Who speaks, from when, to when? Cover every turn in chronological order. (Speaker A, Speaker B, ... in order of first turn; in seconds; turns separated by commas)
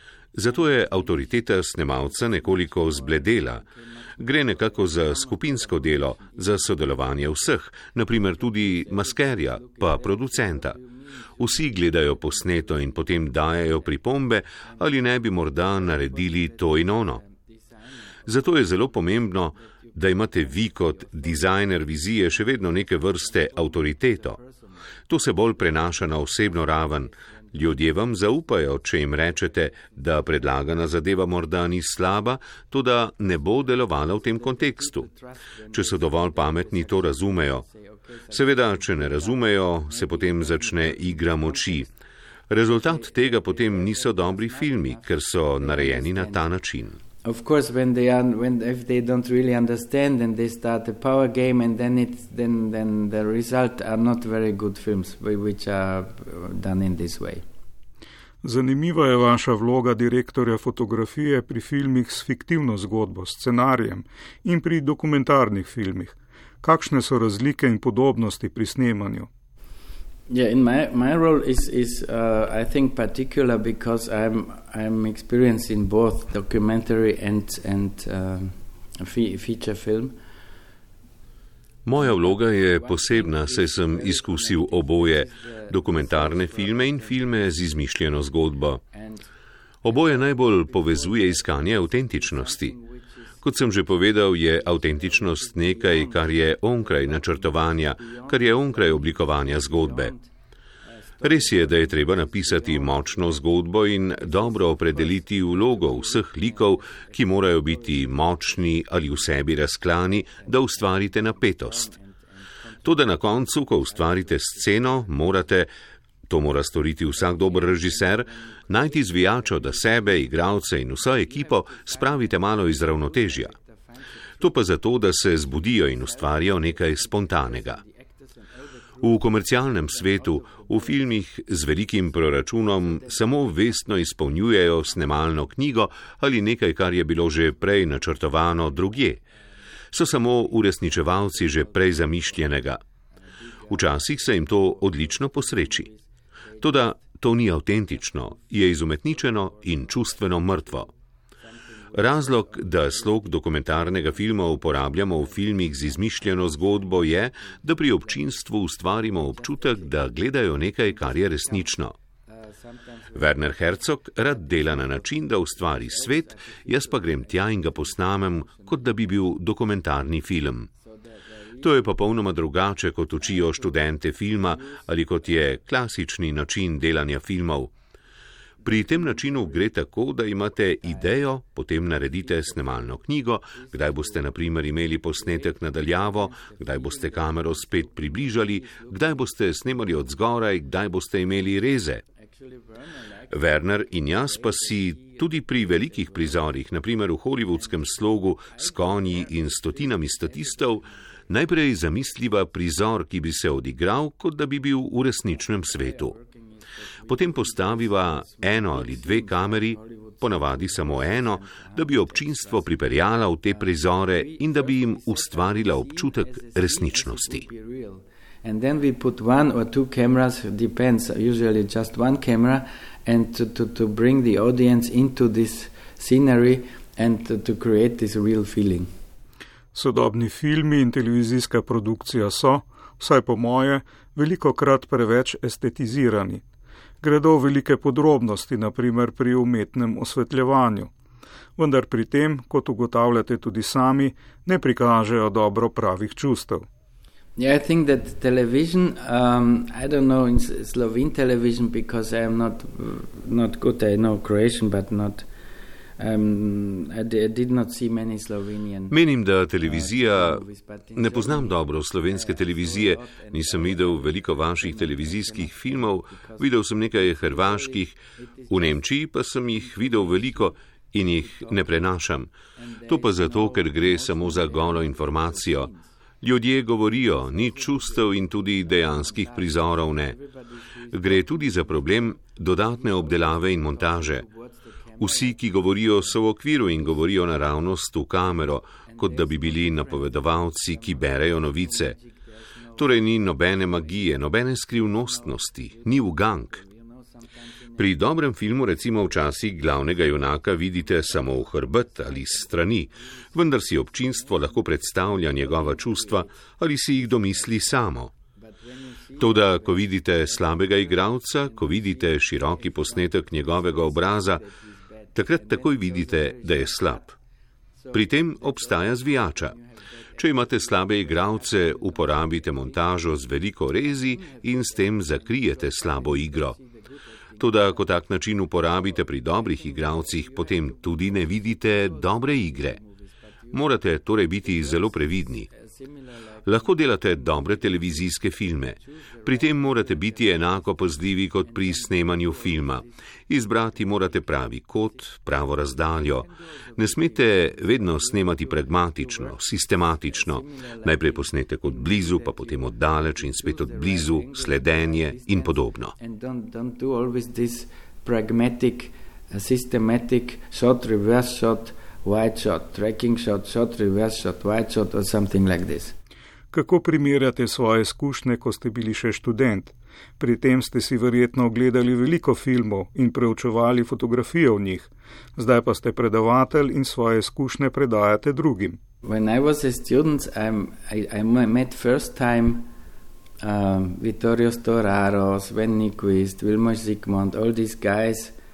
Speaker A: 0.3-3.6, Speaker B: 0.4-7.5, Speaker A: 4.2-10.8, Speaker B: 8.2-14.0, Speaker A: 11.4-17.2, Speaker B: 14.6-28.1, Speaker A: 18.2-24.4, Speaker A: 25.1-35.1, Speaker B: 29.2-30.4, Speaker B: 33.8-41.9, Speaker A: 35.7-37.6, Speaker A: 38.3-41.9, Speaker A: 42.5-47.0, Speaker B: 42.6-46.5, Speaker B: 47.2-57.4, Speaker C: 58.4-69.3, Speaker B: 70.3-80.2, Speaker A: 81.9-88.8, Speaker B: 82.0-87.5, Speaker B: 88.9-89.3, Speaker A: 89.8-92.8, Speaker B: 89.9-100.3, Speaker A: 93.4-100.1, Speaker B: 100.8-109.4, Speaker A: 101.2-111.9, Speaker B: 110.3-115.3, Speaker A: 112.8-115.7, Speaker A: 116.3-123.5, Speaker B: 117.1-124.6, Speaker A: 124.4-127.8, Speaker B: 125.1-131.1, Speaker A: 129.0-139.2, Speaker B: 131.9-133.9, Speaker B: 134.9-135.2, Speaker A: 139.9-142.8, Speaker B: 140.9-142.1, Speaker B: 143.4-146.9, Speaker A: 143.7-145.9, Speaker A: 146.6-150.9, Speaker B: 149.1-150.9, Speaker B: 151.4-158.4, Speaker A: 151.9-161.9, Speaker B: 159.0-160.2, Speaker B: 160.9-161.7, Speaker B: 162.3-169.0, Speaker A: 163.1-170.7, Speaker B: 170.9-172.1, Speaker A: 171.6-177.7, Speaker B: 173.2-173.8, Speaker B: 174.3-175.6, Speaker A: 178.6-192.0, Speaker B: 178.8-179.3, Speaker B: 183.6-184.3, Speaker B: 185.1-189.4, Speaker B: 192.2-196.4, Speaker A: 193.3-206.1, Speaker B: 197.5-201.0, Speaker B: 205.3-212.9, Speaker A: 207.1-217.5, Speaker B: 213.5-228.9, Speaker C: 229.7-236.4, Speaker C: 237.0-240.9, Speaker C: 241.6-246.7, Speaker B: 247.4-255.3, Speaker B: 256.0-259.0, Speaker A: 258.9-260.4, Speaker B: 259.6-268.9, Speaker A: 260.9-272.3, Speaker B: 269.6-270.5, Speaker B: 271.2-271.9, Speaker B: 272.6-275.9, Speaker A: 272.9-280.2, Speaker B: 276.9-287.0, Speaker A: 280.9-284.2, Speaker A: 285.0-292.0, Speaker B: 288.9-298.0, Speaker A: 292.8-296.6, Speaker A: 297.8-308.1, Speaker B: 300.9-306.4, Speaker B: 307.0-307.5, Speaker B: 308.4-317.1, Speaker A: 309.2-314.4, Speaker A: 315.1-317.1, Speaker B: 317.8-327.9, Speaker A: 317.9-319.6, Speaker A: 320.2-326.6, Speaker A: 327.4-332.8, Speaker B: 328.8-337.8, Speaker A: 333.5-335.5, Speaker A: 336.4-355.9, Speaker B: 338.8-340.8, Speaker B: 341.4-342.9, Speaker B: 343.6-344.2, Speaker B: 345.7-349.4, Speaker B: 350.0-366.0, Speaker C: 366.5-378.8, Speaker B: 379.0-382.7, Speaker B: 383.4-388.4